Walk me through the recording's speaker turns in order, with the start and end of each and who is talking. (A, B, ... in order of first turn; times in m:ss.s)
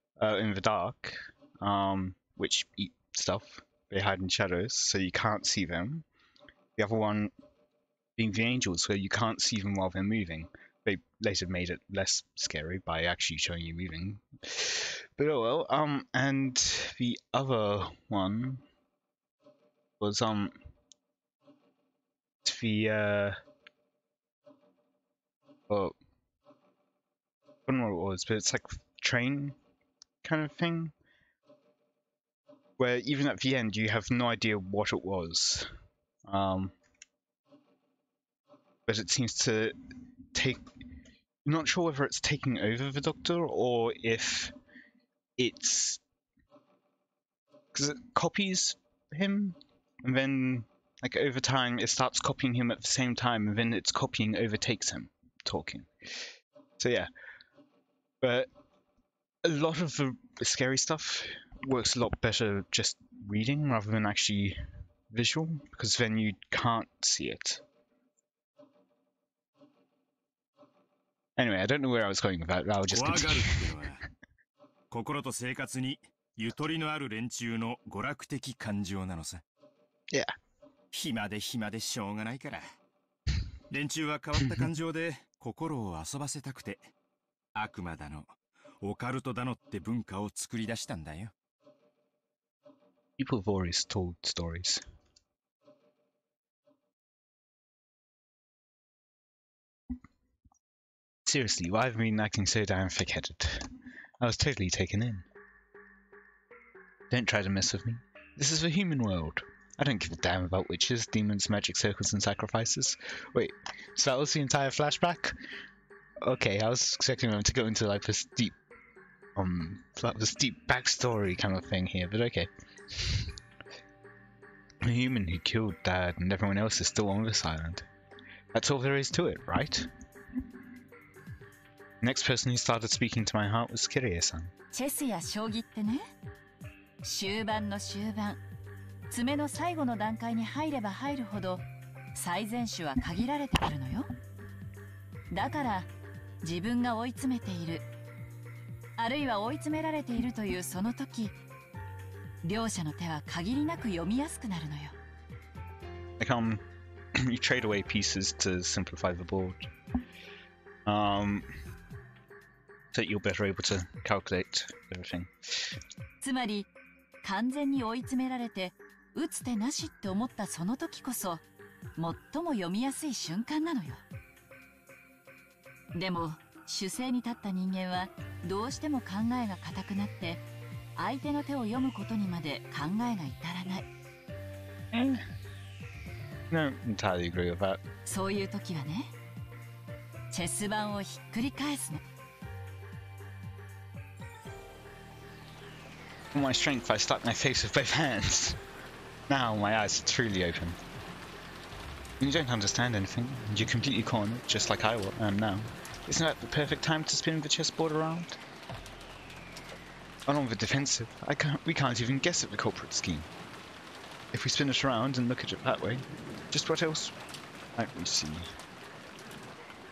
0:00.2-0:06.0 A
0:06.8-0:07.3 A
0:08.2-0:18.6 A
0:20.0-0:20.5 A
0:22.4-0:23.4 A
0:25.7-0:25.9 A
0:27.7-0:29.6 A
0:30.2-0:30.9 A
0:32.8-0:35.7 A
0:36.2-0:36.7 A
0:38.9-0:39.8 A
0:40.3-0:40.6 A
0:41.4-0:44.5 A
0:45.4-0:46.0 A
0:47.7-0:55.9 A
0:56.8-0:57.1 A
0:58.2-0:58.5 A
0:59.4-1:04.6 A
1:05.1-1:07.6 A
1:11.4-1:13.6 A
1:12.9-1:14.0 B
1:14.9-1:19.4 B
1:20.9-1:22.6 B
1:23.7-1:26.9 B
1:27.6-1:28.3 B
1:28.8-1:31.3 B
1:33.2-1:34.8 A
1:41.2-1:43.6 A
1:44.2-1:45.2 A
1:47.1-1:55.3 A
1:56.2-1:58.6 A
1:59.3-2:03.3 A
2:04.8-2:07.8 A
2:08.5-2:09.9 A
2:12.0-2:14.5 A
2:14.7-2:16.0 C
2:17.0-2:18.4 C
2:19.1-2:24.1 C
2:25.3-2:25.9 C
2:26.4-2:27.8 C
2:29.0-2:31.4 C
2:32.4-2:34.9 C
2:36.2-2:36.6 A
2:37.2-2:39.7 A
2:40.8-2:41.5 A
2:42.9-2:45.3 A
2:46.2-2:46.7 C
2:47.2-2:51.4 C
2:52.0-2:54.0 C
2:55.9-3:00.4 C
3:01.0-3:03.9 C
3:04.9-3:05.2 A
3:06.5-3:07.8 A
3:08.0-3:09.1 C
3:10.3-3:12.0 C
3:16.3-3:18.6 A
3:19.3-3:20.8 A
3:22.2-3:28.4 A
3:30.3-3:33.3 A
3:34.3-3:37.1 A
3:37.8-3:38.5 A